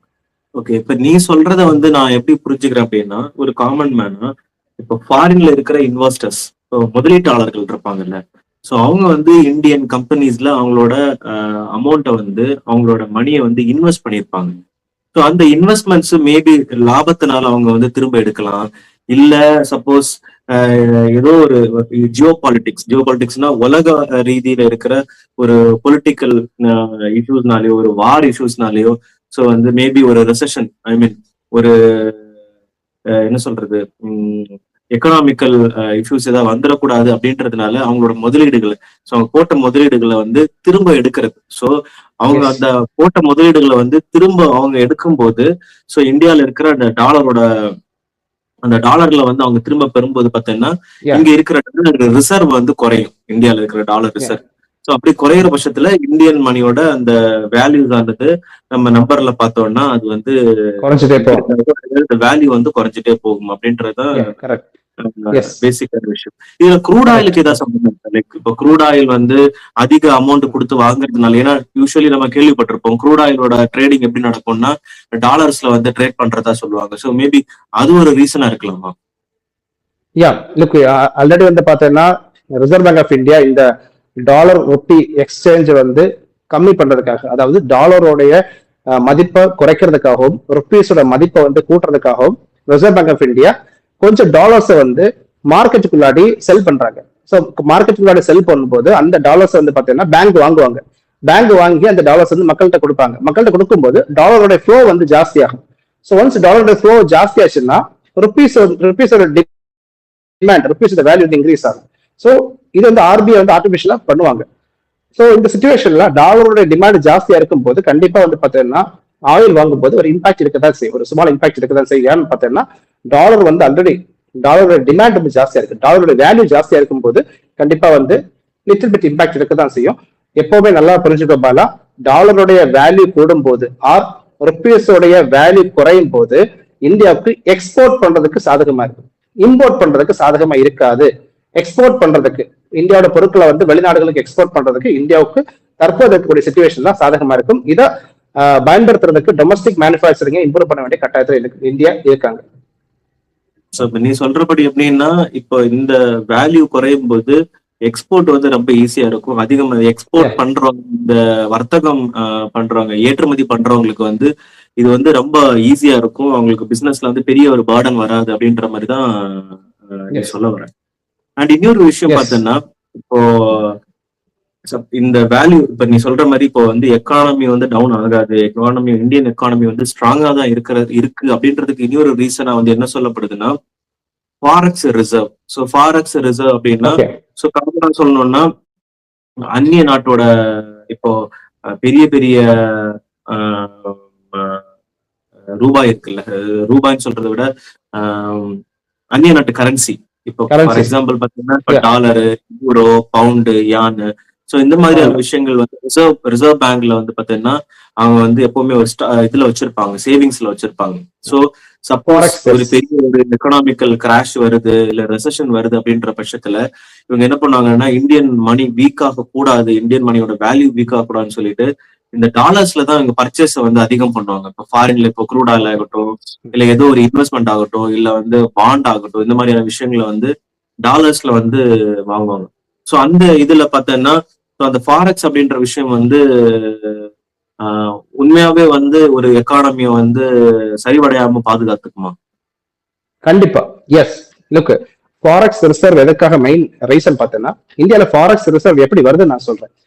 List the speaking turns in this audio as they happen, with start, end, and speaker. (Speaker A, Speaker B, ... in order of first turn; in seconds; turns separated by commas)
Speaker A: 0.6-4.3, Speaker A: 4.8-14.6, Speaker A: 15.2-32.2, Speaker A: 33.3-47.5, Speaker A: 48.6-64.3, Speaker B: 60.8-61.4, Speaker B: 64.2-64.7, Speaker A: 65.0-78.9, Speaker B: 67.1-67.6, Speaker B: 80.2-83.7, Speaker B: 84.3-88.4, Speaker B: 89.0-109.5, Speaker B: 110.4-114.4, Speaker B: 115.2-147.9, Speaker B: 148.4-152.4, Speaker A: 153.8-164.3, Speaker A: 164.8-170.7, Speaker A: 171.4-173.8, Speaker B: 172.1-172.4, Speaker A: 174.7-183.6, Speaker A: 184.4-188.5, Speaker B: 186.9-187.1, Speaker A: 189.5-191.1, Speaker A: 191.8-194.6, Speaker A: 195.6-198.6, Speaker A: 199.2-230.3, Speaker B: 200.5-200.9, Speaker B: 204.9-205.2, Speaker B: 212.1-212.7, Speaker A: 230.8-237.0, Speaker A: 237.6-240.2, Speaker A: 240.8-242.1, Speaker B: 243.3-249.7